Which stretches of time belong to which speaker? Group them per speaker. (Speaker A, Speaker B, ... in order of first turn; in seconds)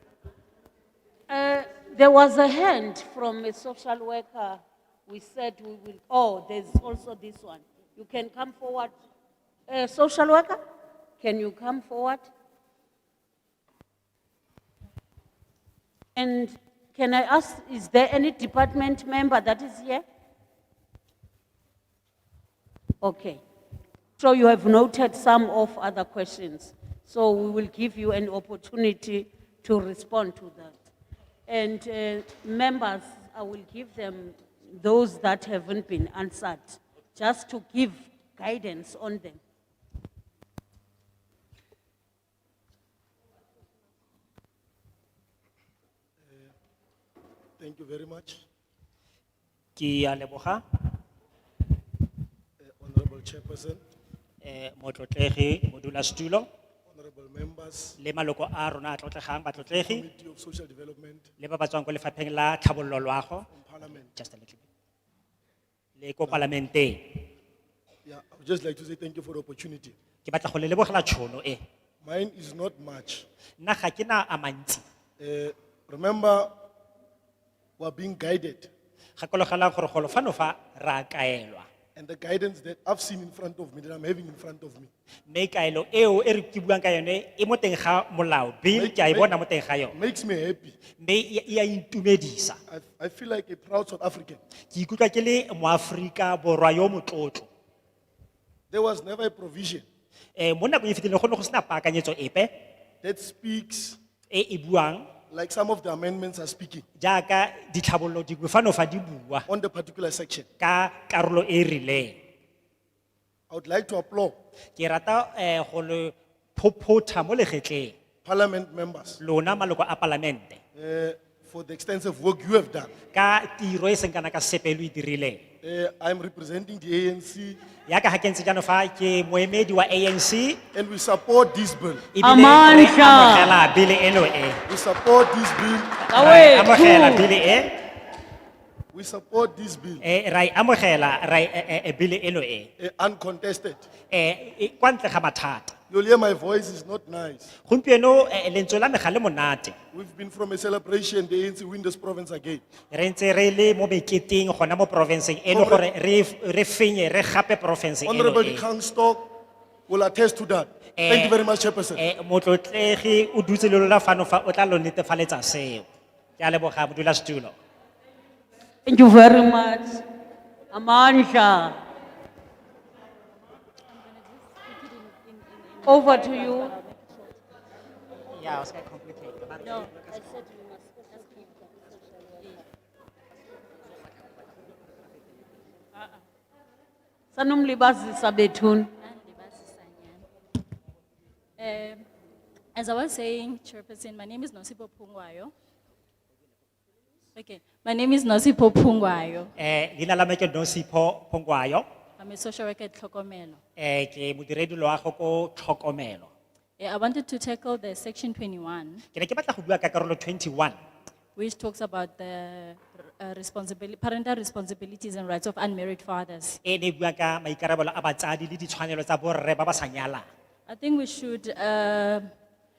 Speaker A: 1.3-8.9, 9.7-10.6, 11.2-12.3, 16.1-20.0, 23.0-23.4, 24.2-30.7, 31.5-39.4, 132.2-133.6, 136.1-137.3, 168.8-170.0, 170.7-171.8, 175.8-176.7, 187.3-188.9
Speaker B: 46.2-46.5, 47.6-48.4, 52.6-53.8, 56.9-58.0, 59.6-61.3, 63.5-64.1, 68.0-69.9, 72.0-73.2, 75.2-76.5, 77.8-78.7, 81.9-84.9, 88.7-89.3, 89.9-90.8, 92.7-94.4, 98.7-99.8, 103.0-104.0, 105.3-106.8, 109.5-110.5, 113.5-114.3, 118.2-119.2, 120.7-122.9, 125.6-127.6, 130.7-132.1, 134.7-136.1, 138.9-140.0, 142.8-143.9, 145.9-147.5, 149.9-152.6, 155.5-155.8, 158.0-159.3, 159.9-162.0
Speaker C: 49.8-50.6, 54.4-56.5, 58.0-60.0, 61.4-64.6, 66.0-67.2, 70.2-71.6, 73.6-74.8, 79.2-81.7, 85.3-89.9, 91.0-92.6, 94.7-97.5, 100.3-102.5, 104.3-105.1, 107.0-109.5, 110.6-112.2, 114.8-117.9, 119.2-120.6, 123.1-125.4, 127.9-130.6, 132.1-134.6, 136.1-137.7, 140.0-142.7, 144.1-145.7, 147.6-149.7, 152.9-158.7, 160.9-161.4, 162.0-165.8, 166.4-167.5, 178.3-180.4, 199.6-201.8, 203.8-206.3, 209.1-210.8, 216.6-220.2
Speaker D: 173.9-177.3, 189.0-190.2, 191.6-192.0, 192.7-195.5, 197.3-199.5, 202.2-203.6, 206.8-209.0, 211.3-216.6, 220.7-222.3